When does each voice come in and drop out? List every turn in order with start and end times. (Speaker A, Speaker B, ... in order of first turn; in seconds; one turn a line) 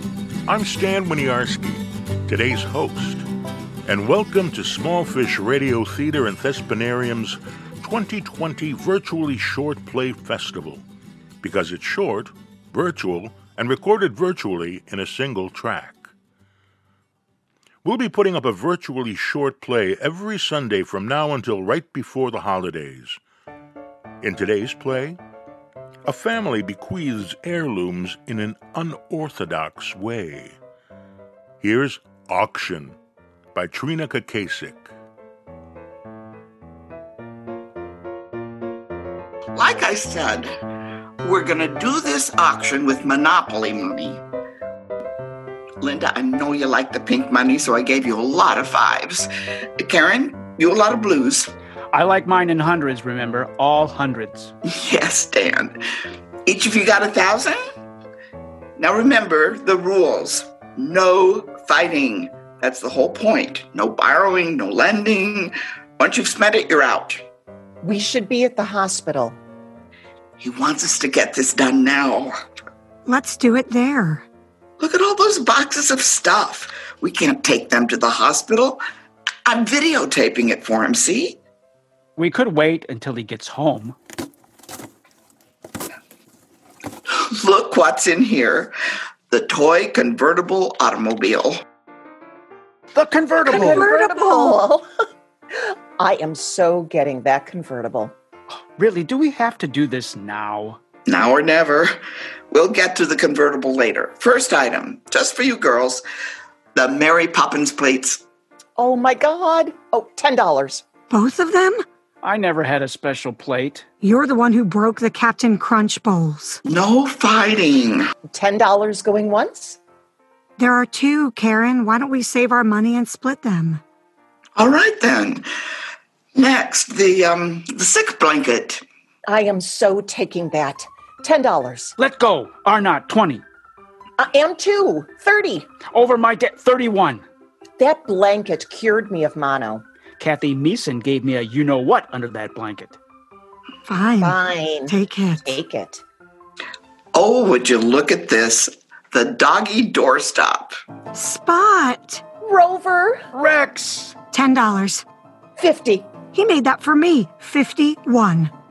Speaker A: 0.5-3.2
Speaker A: 3.9-10.8
Speaker A: 11.4-16.0
Speaker A: 17.8-23.2
Speaker A: 24.2-25.2
Speaker A: 26.1-30.6
Speaker A: 31.6-33.0
Speaker A: 33.5-34.9
Speaker B: 39.5-40.5
Speaker B: 41.2-44.2
Speaker B: 45.8-49.3
Speaker B: 49.8-51.5
Speaker C: 51.9-54.5
Speaker B: 54.7-55.8
Speaker B: 56.5-57.6
Speaker B: 58.8-67.2
Speaker D: 67.8-69.4
Speaker B: 70.4-72.3
Speaker E: 73.0-74.2
Speaker B: 74.8-78.8
Speaker B: 79.5-81.4
Speaker C: 82.2-84.0
Speaker B: 87.1-88.7
Speaker B: 89.3-91.6
Speaker C: 92.9-94.0
Speaker D: 93.4-94.8
Speaker E: 93.9-94.5
Speaker D: 95.6-98.1
Speaker C: 98.8-100.8
Speaker B: 101.1-101.9
Speaker B: 102.5-106.0
Speaker B: 106.7-108.2
Speaker D: 108.8-110.8
Speaker E: 111.1-111.8
Speaker C: 112.2-113.8
Speaker E: 114.0-116.6
Speaker B: 116.6-118.1
Speaker D: 118.3-119.8
Speaker E: 120.6-123.8
Speaker B: 124.6-125.5
Speaker B: 126.3-128.8
Speaker D: 129.3-131.9
Speaker C: 132.0-133.4
Speaker D: 134.2-135.7
Speaker C: 135.9-137.2
Speaker D: 137.8-139.8
Speaker C: 140.2-143.0
Speaker E: 143.8-145.5
Speaker D: 144.2-146.0
Speaker B: 147.1-150.7
Speaker E: 151.1-152.2
Speaker D: 152.4-153.2
Speaker C: 153.3-154.2
Speaker E: 154.3-155.0
Speaker D: 155.6-156.1
Speaker E: 156.3-158.5